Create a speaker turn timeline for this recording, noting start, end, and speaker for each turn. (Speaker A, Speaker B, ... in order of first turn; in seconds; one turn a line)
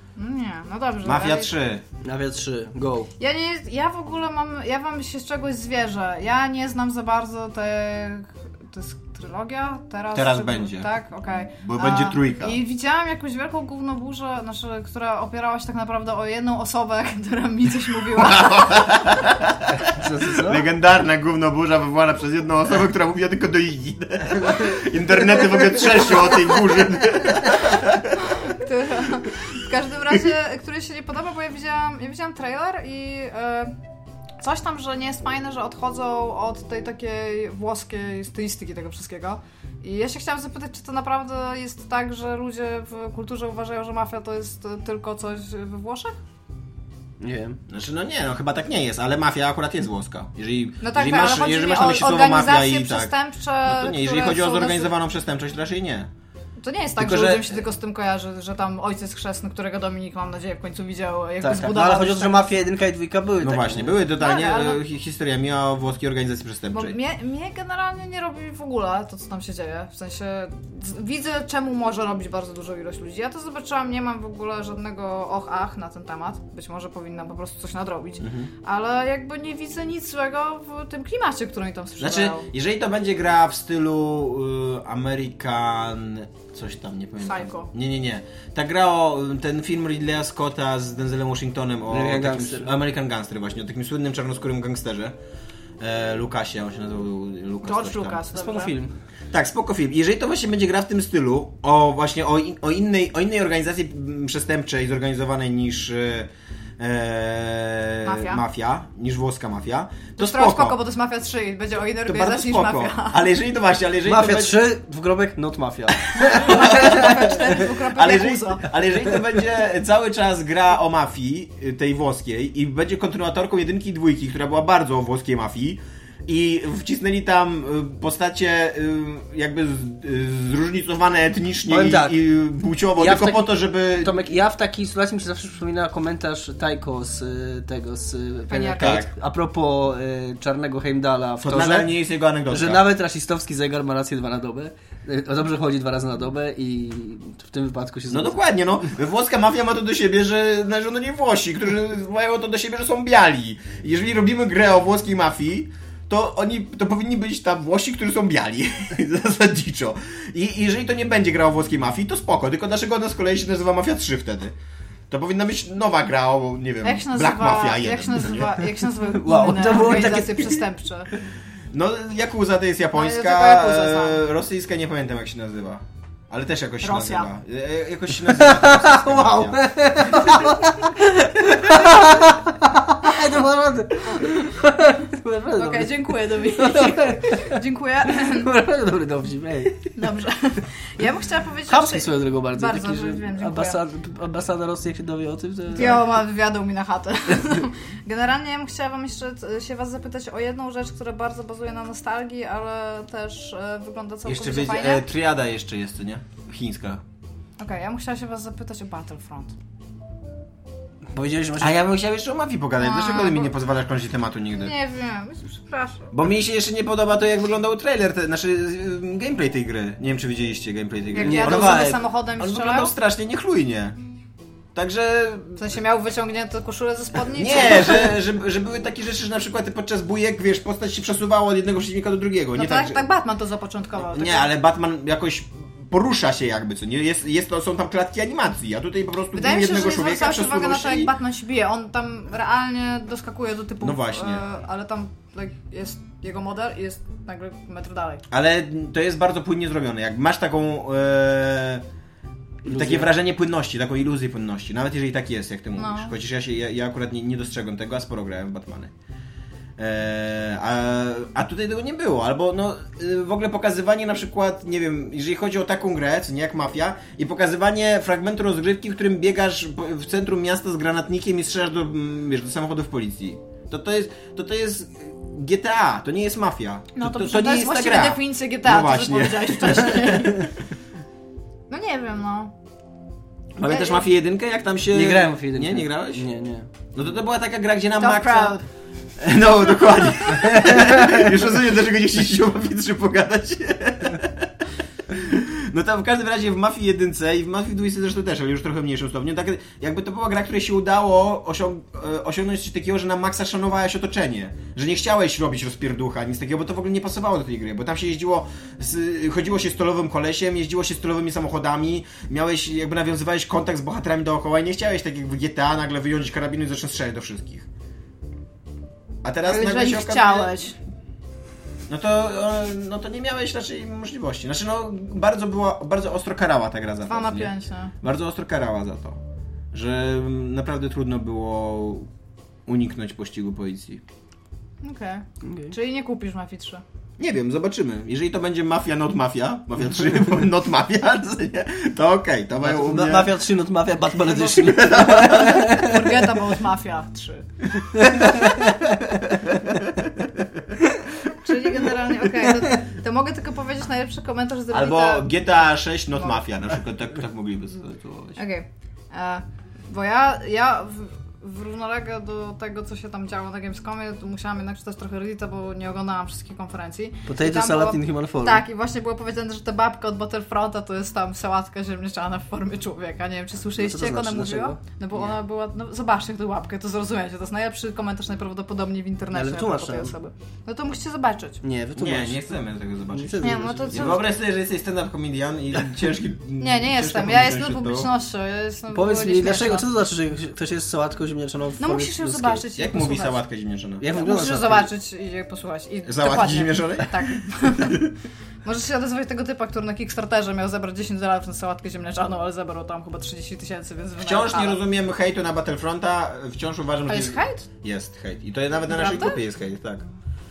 Speaker A: 0.2-1.5
Speaker B: 1.0-1.8
Speaker C: 2.0-3.1
Speaker A: 3.2-19.1
Speaker B: 10.1-10.9
Speaker B: 11.6-12.6
Speaker B: 18.1-28.3
Speaker C: 19.8-20.7
Speaker A: 28.2-33.7
Speaker A: 34.4-46.2
Speaker C: 47.2-47.6
Speaker B: 47.7-56.1
Speaker A: 50.8-54.9
Speaker A: 56.6-62.5
Speaker B: 57.0-57.6
Speaker C: 61.4-64.0
Speaker B: 63.4-67.0
Speaker A: 64.2-64.8
Speaker A: 66.7-82.5
Speaker B: 78.2-78.5
Speaker B: 82.0-95.2
Speaker A: 87.2-87.7
Speaker C: 91.9-92.7
Speaker B: 95.8-98.2
Speaker A: 97.6-98.7
Speaker C: 98.3-98.9
Speaker B: 99.3-110.8
Speaker A: 108.0-108.4
Speaker A: 110.2-113.3
Speaker B: 112.0-114.6
Speaker C: 114.0-117.4
Speaker A: 116.2-118.7
Speaker B: 116.2-134.3
Speaker C: 131.7-132.2
Speaker C: 133.0-141.9
Speaker A: 138.5-139.0
Speaker B: 138.8-139.1
Speaker B: 141.4-142.9
Speaker C: 142.5-148.4
Speaker B: 148.1-164.5
Speaker B: 165.1-168.6
Speaker A: 166.8-171.1
Speaker C: 169.1-170.6
Speaker B: 171.7-179.6
Speaker A: 172.9-174.2
Speaker A: 176.8-177.3
Speaker C: 178.2-189.9
Speaker A: 185.6-188.5
Speaker A: 189.9-193.8
Speaker C: 191.7-196.0
Speaker A: 195.7-205.1
Speaker B: 195.8-196.0
Speaker B: 204.2-207.0
Speaker A: 207.6-209.5
Speaker C: 211.1-211.8
Speaker B: 211.6-214.7
Speaker A: 212.8-213.5
Speaker A: 214.5-216.1
Speaker B: 216.1-224.0
Speaker A: 221.1-222.9
Speaker C: 221.2-222.0
Speaker B: 224.7-225.6
Speaker A: 225.6-228.2
Speaker B: 227.3-233.0
Speaker A: 232.6-234.5
Speaker B: 234.0-241.1
Speaker A: 239.3-248.2
Speaker B: 243.8-244.4
Speaker B: 248.3-251.8
Speaker C: 252.6-253.1
Speaker B: 252.7-258.9
Speaker A: 255.8-256.1
Speaker B: 259.8-280.4
Speaker A: 276.9-280.6
Speaker A: 281.7-282.5
Speaker B: 283.6-286.3
Speaker A: 283.6-284.1
Speaker C: 284.9-286.7
Speaker B: 286.9-288.6
Speaker A: 288.0-288.6
Speaker B: 289.2-294.5
Speaker C: 290.7-291.0
Speaker B: 295.1-317.7
Speaker B: 319.2-320.6
Speaker A: 319.4-320.7
Speaker B: 321.9-329.2
Speaker A: 327.1-327.9
Speaker B: 329.7-332.1
Speaker B: 332.7-334.0
Speaker A: 334.8-336.8
Speaker C: 335.4-335.7
Speaker B: 337.2-343.3
Speaker C: 342.6-346.2
Speaker A: 344.2-347.4
Speaker B: 344.4-345.6
Speaker C: 347.9-349.0
Speaker A: 351.3-355.4
Speaker B: 354.7-358.4
Speaker A: 358.4-381.6
Speaker C: 367.3-368.6
Speaker C: 373.8-374.8
Speaker C: 379.3-380.1
Speaker C: 381.6-382.5
Speaker B: 381.9-388.1
Speaker C: 383.1-384.2
Speaker A: 383.4-384.3
Speaker A: 386.6-389.9
Speaker C: 388.9-392.6
Speaker A: 391.8-393.4
Speaker B: 392.7-394.1
Speaker C: 394.0-394.9
Speaker A: 394.1-398.1
Speaker B: 396.1-398.1
Speaker A: 398.6-404.8
Speaker B: 404.2-410.1
Speaker A: 407.1-407.7
Speaker A: 408.9-409.4